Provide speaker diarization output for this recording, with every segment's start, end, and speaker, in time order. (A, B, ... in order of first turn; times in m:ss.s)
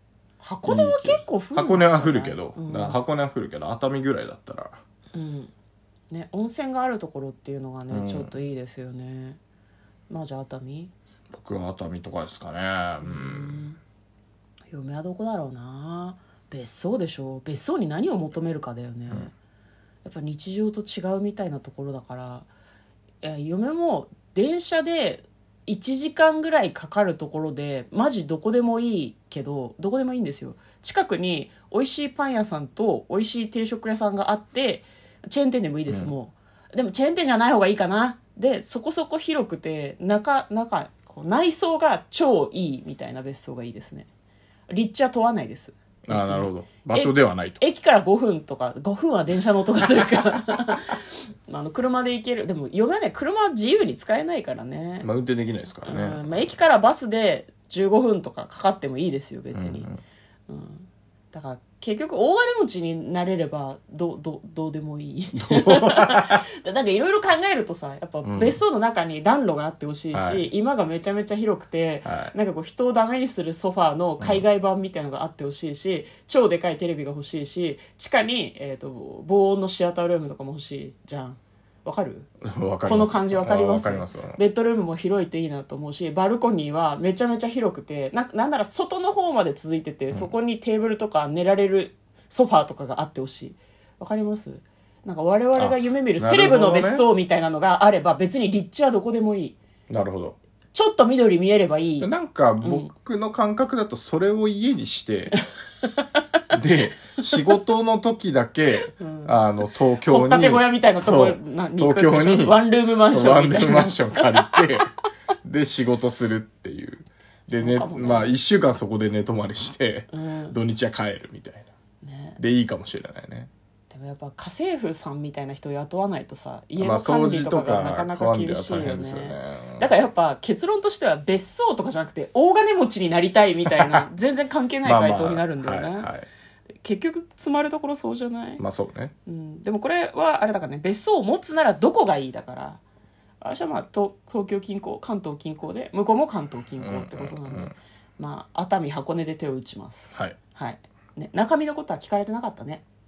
0:00.4-0:03.0 A
0:00.7-0:04.8 B
0:05.1-0:05.5 A
0:06.1-0:09.4 A
0:07.9-0:08.3 B
0:10.1-0:10.9 A
0:11.3-0:13.6 B
0:13.0-0:13.8 A
0:14.7-0:19.3 A
0:20.0-0:22.5 A
0:23.2-0:44.1 A
0:44.7-0:55.1 A
0:46.1-0:47.6 B
0:55.0-0:56.4 B
0:55.8-0:59.9 A
0:59.5-1:00.0 B
1:00.5-1:22.3 A
1:05.4-1:06.4 B
1:08.2-1:08.6 B
1:10.1-1:10.5 B
1:12.0-1:12.3 B
1:22.4-1:24.4 B
1:22.8-1:39.6 A
1:35.6-1:37.1 B
1:39.9-1:40.4 B
1:40.7-1:42.1 A
1:42.0-1:45.4 B
1:42.6-1:42.9 A
1:45.4-1:46.1 A
1:46.5-1:54.9 B
1:48.8-1:49.4 A
1:50.0-1:54.6 A
1:55.4-2:01.7 B
1:57.5-1:58.3 A
2:00.1-2:00.6 A
2:02.0-2:02.4 A
2:02.4-2:03.5 B
2:03.9-2:16.1 A
2:06.8-2:09.9 B
2:13.7-2:14.0 B
2:14.8-2:16.3 B
2:16.8-2:18.6 A
2:18.6-2:19.1 B
2:19.3-2:22.8 A
2:23.4-2:32.8 A
2:26.8-2:27.8 B